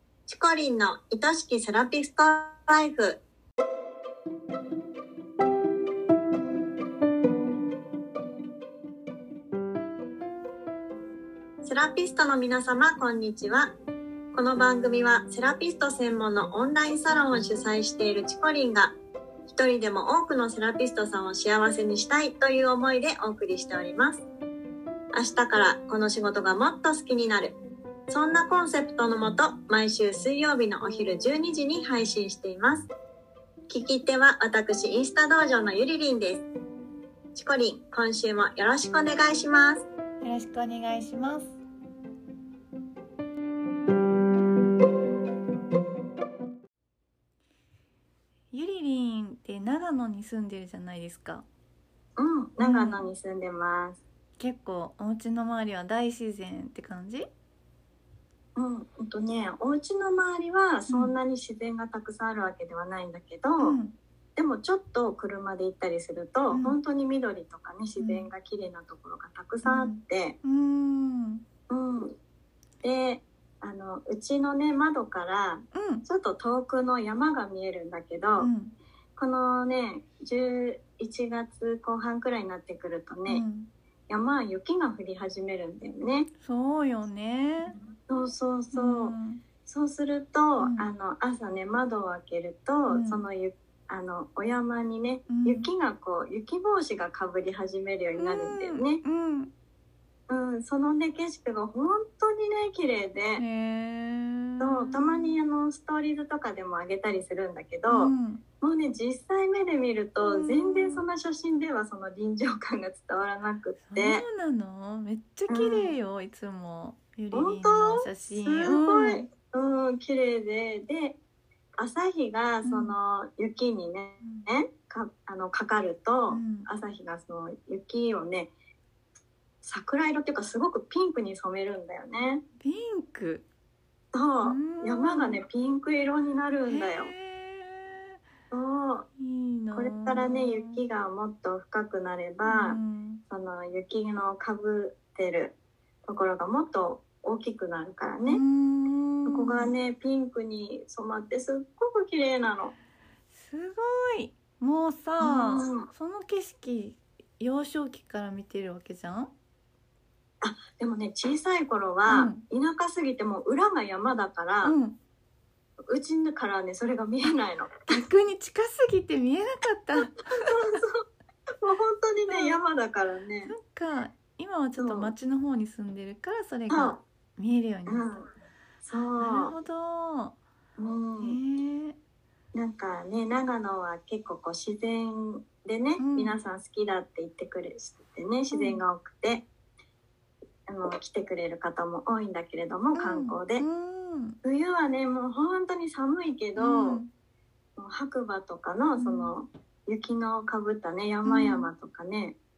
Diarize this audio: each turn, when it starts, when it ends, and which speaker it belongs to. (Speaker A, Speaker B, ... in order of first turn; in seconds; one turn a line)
Speaker A: 0.3-3.2
Speaker A: 11.6-13.7
Speaker A: 14.3-18.9
Speaker A: 19.4-24.2
Speaker A: 25.1-27.6
Speaker A: 28.1-32.9
Speaker A: 33.7-36.4
Speaker A: 37.3-39.8
Speaker B: 40.2-41.6
Speaker B: 48.5-51.5
Speaker A: 52.2-54.0
Speaker B: 52.6-53.1
Speaker B: 54.4-57.2
Speaker A: 58.5-63.8
Speaker B: 60.9-61.1
Speaker B: 63.6-64.0
Speaker A: 64.3-70.4
Speaker B: 66.5-66.8
Speaker B: 68.0-68.3
Speaker B: 69.6-71.4
Speaker A: 71.7-72.1
Speaker A: 72.8-78.5
Speaker B: 75.7-76.0
Speaker B: 78.4-78.8
Speaker A: 79.2-83.4
Speaker B: 83.3-83.7
Speaker A: 84.1-86.3
Speaker B: 86.4-87.8
Speaker A: 88.1-99.0
Speaker B: 88.7-89.4
Speaker B: 90.6-90.9
Speaker B: 92.9-93.2
Speaker B: 95.3-95.7
Speaker B: 98.2-99.5
Speaker A: 100.3-103.4
Speaker B: 103.4-105.4
Speaker A: 104.6-114.2
Speaker B: 107.9-108.4
Speaker B: 110.2-111.0
Speaker B: 113.9-119.2
Speaker A: 115.5-115.9
Speaker A: 117.3-121.2
Speaker A: 121.8-128.5
Speaker B: 122.6-122.9
Speaker B: 124.2-124.5
Speaker B: 126.3-126.7
Speaker A: 129.6-132.4
Speaker B: 132.6-133.4
Speaker A: 134.1-137.1
Speaker B: 134.4-135.4
Speaker B: 136.7-138.2
Speaker A: 138.5-139.1
Speaker B: 139.2-140.8
Speaker A: 139.7-148.4
Speaker B: 142.4-143.2
Speaker B: 148.2-149.7
Speaker A: 149.2-152.7
Speaker B: 153.3-159.3
Speaker A: 155.2-155.9
Speaker A: 160.4-164.8
Speaker B: 162.1-162.4
Speaker B: 164.6-165.0
Speaker A: 165.9-168.0
Speaker B: 167.9-170.8
Speaker A: 170.3-171.0
Speaker A: 171.6-173.5
Speaker B: 172.3-172.6
Speaker B: 173.4-178.2
Speaker A: 174.8-175.1
Speaker A: 176.7-177.0
Speaker A: 177.9-178.2
Speaker A: 178.8-179.5
Speaker B: 179.2-180.4
Speaker A: 180.8-181.4
Speaker B: 181.2-182.0
Speaker A: 182.5-189.4
Speaker B: 186.0-186.3
Speaker B: 188.5-188.8
Speaker A: 190.7-193.7
Speaker B: 192.9-194.4
Speaker A: 194.4-197.0
Speaker B: 196.6-197.1
Speaker A: 197.8-202.3
Speaker B: 199.0-199.3
Speaker B: 201.2-201.7